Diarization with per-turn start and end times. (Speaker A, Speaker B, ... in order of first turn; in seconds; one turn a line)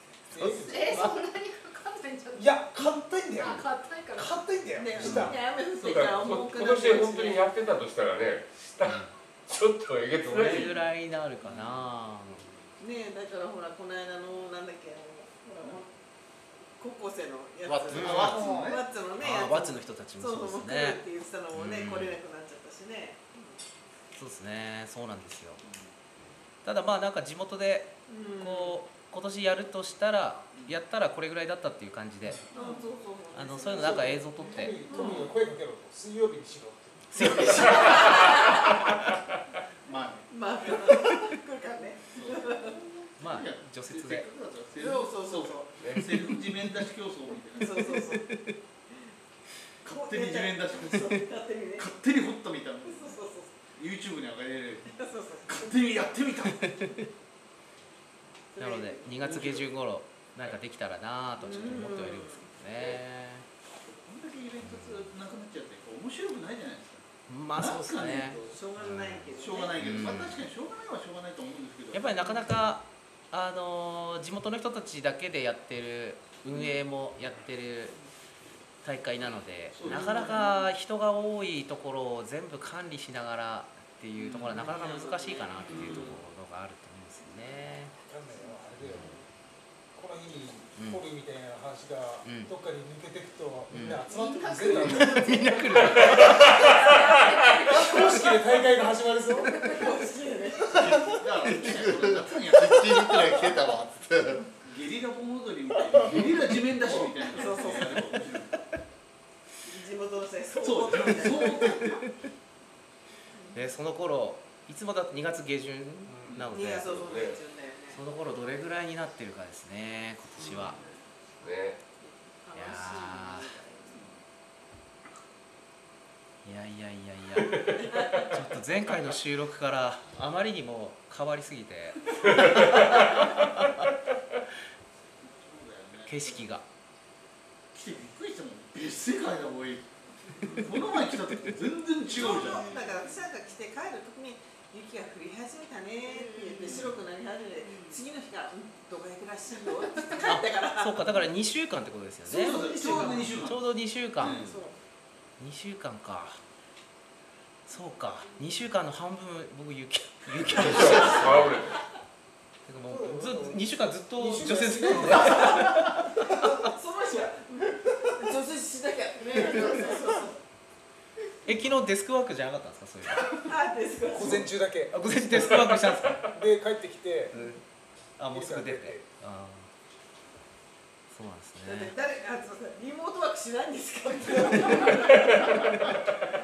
Speaker A: 0.3-1.3
Speaker B: 0.3-1.1
Speaker C: 0.5-2.6
Speaker A: 2.4-5.4
Speaker C: 3.4-4.4
Speaker D: 4.7-7.4
Speaker E: 5.0-6.5
Speaker F: 5.8-10.7
Speaker B: 8.8-9.1
Speaker B: 10.2-12.5
Speaker E: 11.4-11.8
Speaker D: 12.8-15.8
Speaker D: 16.8-23.6
Speaker G: 17.6-18.4
Speaker E: 17.9-18.8
Speaker B: 17.9-18.4
Speaker B: 19.2-21.0
Speaker B: 21.5-22.2
Speaker B: 24.1-25.6
Speaker E: 25.6-25.9
Speaker B: 26.6-32.4
Speaker D: 28.1-28.8
Speaker E: 32.3-32.8
Speaker D: 32.5-35.3
Speaker B: 33.3-34.8
Speaker A: 33.8-38.0
Speaker E: 35.0-35.2
Speaker B: 37.1-38.0
Speaker E: 37.4-37.7
Speaker D: 37.7-38.8
Speaker F: 37.8-38.1
Speaker E: 39.8-40.8
Speaker D: 40.3-42.8
Speaker E: 42.1-48.1
Speaker B: 43.2-44.2
Speaker D: 44.8-45.8
Speaker F: 45.8-46.1
Speaker D: 47.6-48.4
Speaker B: 47.9-48.5
Speaker E: 49.8-53.2
Speaker D: 49.9-51.9
Speaker D: 52.9-53.5
Speaker E: 53.7-56.9
Speaker D: 54.8-55.8
Speaker D: 58.5-59.1
Speaker B: 58.6-63.5
Speaker E: 59.1-59.7
Speaker D: 61.4-62.5
Speaker E: 63.8-68.6
Speaker B: 64.6-65.0
Speaker B: 67.3-69.3
Speaker D: 68.4-70.1
Speaker E: 69.3-72.3
Speaker B: 69.8-70.4
Speaker B: 71.9-78.0
Speaker B: 78.8-87.9
Speaker E: 79.7-80.4
Speaker D: 79.9-80.3
Speaker E: 84.2-86.2
Speaker F: 85.7-86.0
Speaker A: 88.1-89.1
Speaker A: 89.9-95.8
Speaker B: 90.8-91.0
Speaker B: 92.2-92.5
Speaker B: 93.7-94.0
Speaker C: 94.0-95.4
Speaker B: 94.7-96.6
Speaker F: 95.8-97.4
Speaker C: 96.2-99.9
Speaker D: 96.6-97.0
Speaker A: 97.7-99.9
Speaker D: 99.6-100.8
Speaker A: 100.6-101.2
Speaker E: 100.7-103.0
Speaker G: 101.5-104.5
Speaker A: 103.0-103.3
Speaker E: 104.6-108.6
Speaker A: 105.9-106.3
Speaker D: 107.3-108.2
Speaker D: 109.7-112.0
Speaker E: 110.6-112.0
Speaker B: 113.5-117.2
Speaker A: 116.1-116.4
Speaker E: 116.2-116.5
Speaker D: 116.5-118.0
Speaker F: 117.0-117.4
Speaker B: 117.9-120.8
Speaker F: 120.4-120.8
Speaker E: 120.5-120.8
Speaker F: 121.4-121.8
Speaker D: 122.0-124.1
Speaker B: 122.5-123.6
Speaker E: 123.9-124.2
Speaker B: 126.4-133.9
Speaker F: 127.5-128.2
Speaker D: 128.0-128.3
Speaker F: 132.3-133.2
Speaker E: 135.2-136.5
Speaker B: 136.1-136.7
Speaker E: 137.7-139.9
Speaker F: 140.4-140.7
Speaker B: 140.4-140.7
Speaker E: 140.5-143.0
Speaker D: 142.1-151.0
Speaker C: 142.5-142.9
Speaker C: 146.3-146.6
Speaker E: 146.7-147.0
Speaker B: 150.2-154.4
Speaker E: 152.2-154.6
Speaker D: 152.4-153.4
Speaker D: 154.4-154.7
Speaker B: 155.4-156.4
Speaker B: 157.7-161.5
Speaker F: 160.5-161.8
Speaker B: 162.7-166.1
Speaker A: 162.9-166.5
Speaker D: 165.1-165.9
Speaker D: 166.4-170.4
Speaker C: 169.4-170.0
Speaker B: 171.4-173.4
Speaker D: 173.3-174.5
Speaker A: 174.1-174.9
Speaker B: 174.9-176.3
Speaker F: 175.4-176.2
Speaker A: 176.3-177.4
Speaker B: 177.3-177.6
Speaker B: 178.2-179.7
Speaker A: 178.3-179.0
Speaker B: 181.1-181.9
Speaker D: 181.6-185.9
Speaker A: 184.4-184.8
Speaker F: 184.7-186.2